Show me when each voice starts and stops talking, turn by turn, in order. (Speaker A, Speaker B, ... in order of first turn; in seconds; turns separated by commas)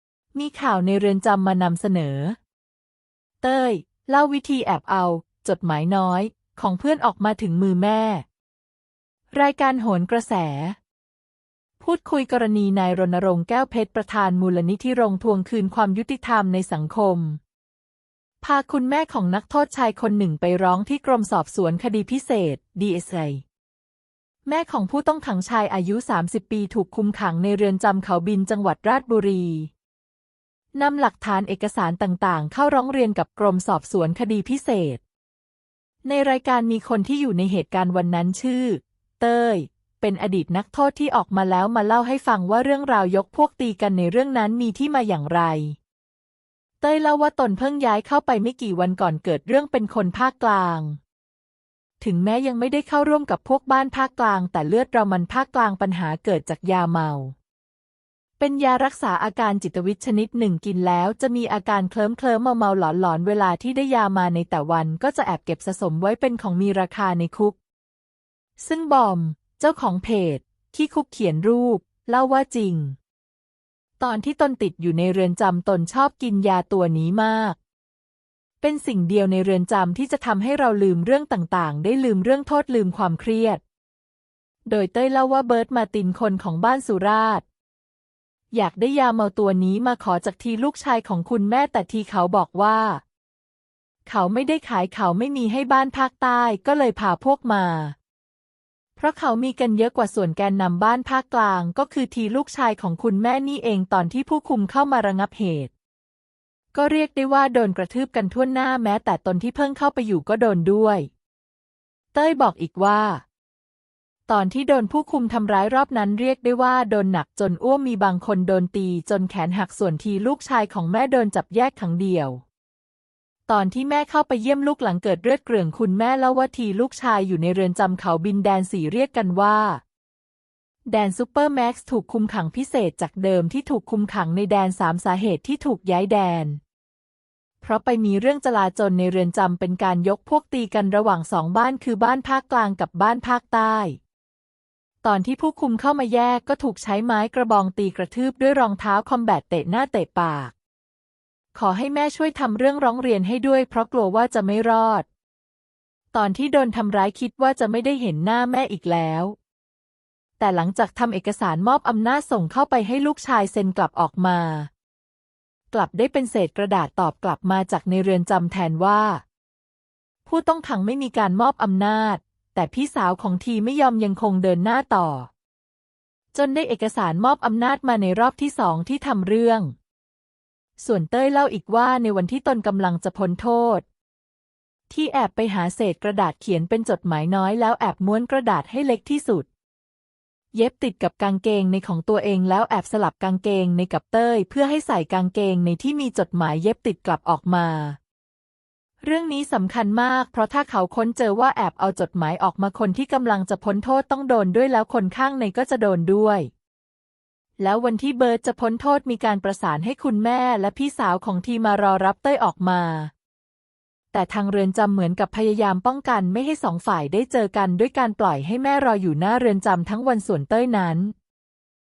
Speaker A: 0.3-2.4, Speaker A: 3.4-8.2, Speaker A: 9.3-10.8, Speaker A: 11.8-17.4, Speaker A: 18.4-23.4, Speaker A: 24.4-29.7, Speaker A: 30.7-35.0, Speaker A: 36.0-45.8, Speaker A: 46.8-51.0, Speaker A: 52.0-57.3, Speaker A: 58.4-67.5, Speaker A: 68.6-73.0, Speaker A: 74.0-77.6, Speaker A: 78.6-83.6, Speaker A: 84.7-87.4, Speaker A: 88.5-93.0, Speaker A: 94.0-97.9, Speaker A: 99.0-105.7, Speaker A: 106.7-111.1, Speaker A: 112.1-113.2, Speaker A: 114.3-122.4, Speaker A: 123.5-129.8, Speaker A: 130.9-136.6, Speaker A: 137.6-144.0, Speaker A: 145.0-150.5, Speaker A: 151.5-155.1, Speaker A: 156.1-159.3, Speaker A: 160.4-164.7, Speaker A: 165.7-169.2, Speaker A: 170.2-175.3, Speaker A: 176.3-179.7, Speaker A: 180.8-183.8, Speaker A: 184.9-189.5, Speaker A: 190.5-198.0, Speaker A: 199.0-206.5, Speaker A: 207.6-213.1, Speaker A: 214.1-221.1